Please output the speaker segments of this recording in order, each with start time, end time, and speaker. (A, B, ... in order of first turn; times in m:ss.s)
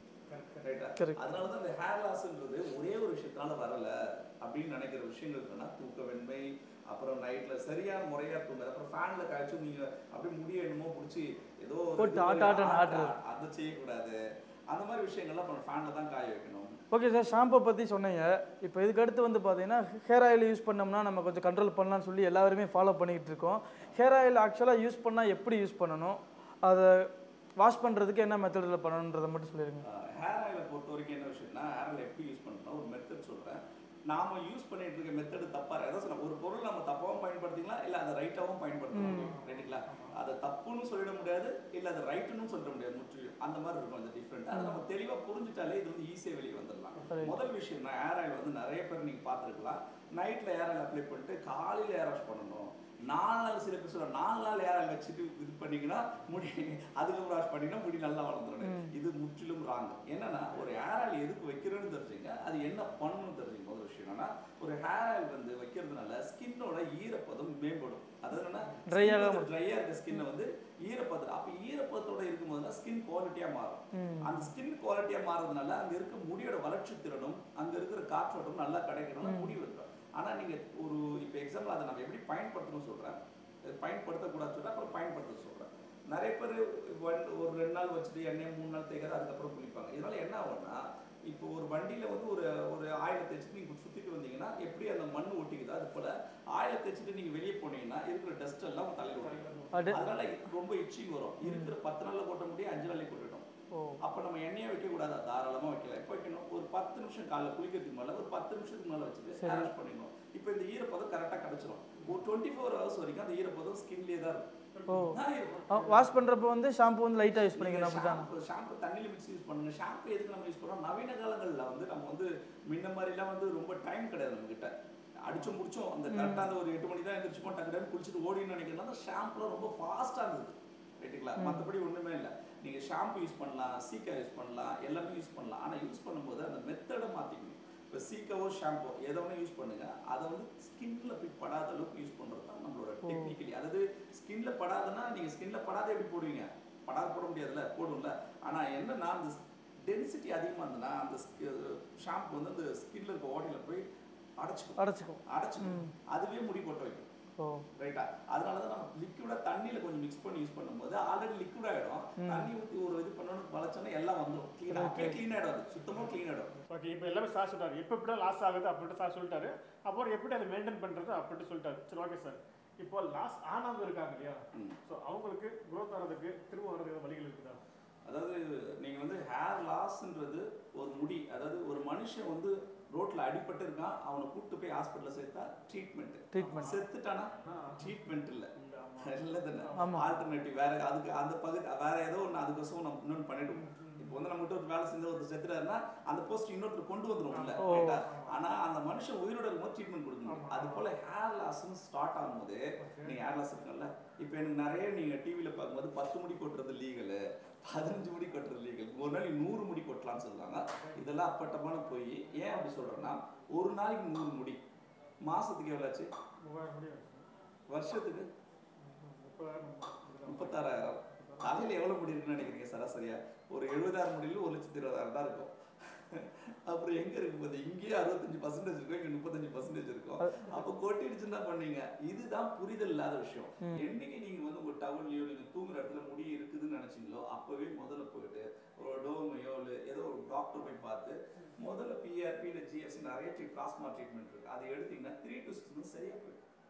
0:00.3-0:00.6 A
0:00.6-0:14.2 B
0:01.0-0:01.3 C
0:12.0-0:13.1 C
0:14.7-0:16.7 B
0:16.9-0:29.8 C
0:29.8-1:43.4 B
0:38.9-0:39.3 C
0:39.0-0:40.1 A
0:44.5-0:44.8 C
0:47.1-0:47.4 C
0:58.6-0:58.9 C
1:08.9-1:09.5 C
1:13.9-1:14.5 C
1:19.2-1:19.6 C
1:39.1-1:40.2 A
1:39.7-1:40.0 C
1:41.4-1:41.7 C
1:43.7-1:44.0 C
1:44.0-1:54.5 B
1:49.4-1:49.7 C
1:54.7-1:56.2 A
1:54.9-1:58.3 C
1:55.0-1:55.7 B
1:57.5-2:33.8 B
2:06.1-2:06.5 C
2:11.4-2:11.6 C
2:23.0-2:23.3 C
2:34.4-2:37.1 B
2:34.8-2:35.9 C
2:37.4-2:37.6 C
2:37.8-2:46.5 B
2:42.2-2:42.5 C
2:44.7-2:45.2 C
2:45.8-2:57.6 A
2:54.5-2:54.8 B
2:58.0-3:34.6 B
3:06.3-3:06.8 C
3:06.4-3:06.8 A
3:07.4-3:10.1 A
3:09.8-3:10.1 C
3:13.5-3:14.2 A
3:17.3-3:18.4 A
3:17.6-3:18.0 C
3:20.3-3:20.9 A
3:22.8-3:23.2 A
3:30.7-3:31.0 A
3:35.2-3:36.1 B
3:36.4-3:37.3 A
3:37.7-3:38.3 B
3:38.8-3:41.5 A
3:40.2-4:06.4 B
3:50.2-3:50.6 C
3:53.6-3:53.9 C